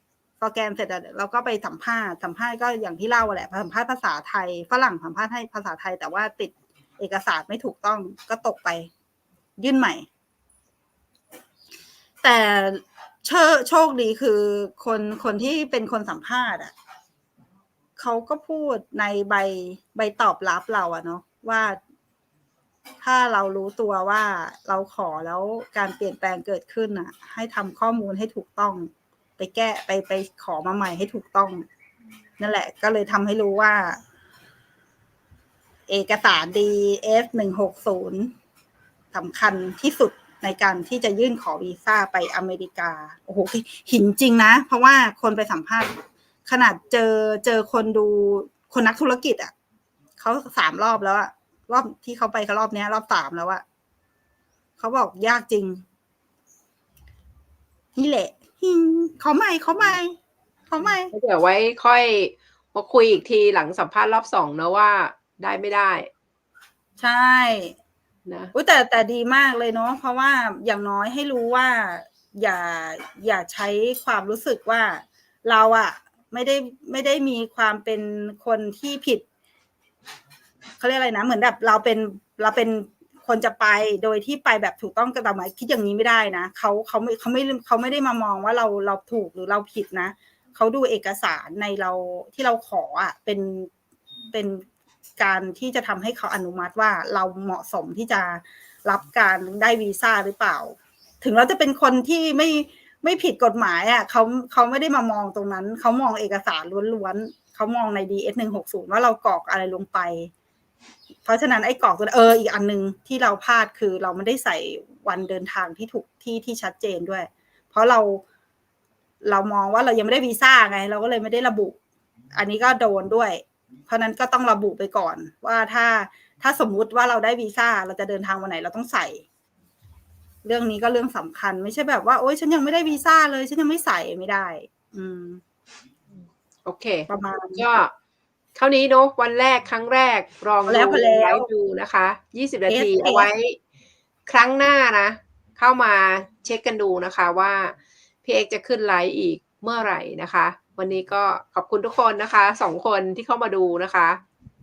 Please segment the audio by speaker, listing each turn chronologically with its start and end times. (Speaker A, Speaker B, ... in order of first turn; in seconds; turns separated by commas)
Speaker A: 0.4-8.9, Speaker A: 9.6-10.1, Speaker A: 12.2-16.7, Speaker A: 18.0-21.8, Speaker A: 23.0-31.6, Speaker A: 32.4-34.0, Speaker A: 35.9-38.3, Speaker A: 39.1-49.5, Speaker A: 50.2-53.6, Speaker A: 54.8-55.8, Speaker A: 58.0-60.1, Speaker A: 60.7-61.1, Speaker B: 61.1-66.1, Speaker A: 67.0-67.8, Speaker B: 68.3-68.5, Speaker A: 68.5-79.2, Speaker A: 80.8-93.7, Speaker A: 94.3-94.6, Speaker A: 95.2-110.3, Speaker A: 111.2-118.2, Speaker A: 119.2-121.8, Speaker A: 122.3-129.2, Speaker A: 130.4-135.4, Speaker B: 136.6-137.9, Speaker A: 137.1-137.7, Speaker B: 138.5-143.5, Speaker A: 140.7-141.5, Speaker A: 142.7-143.3, Speaker B: 144.3-154.2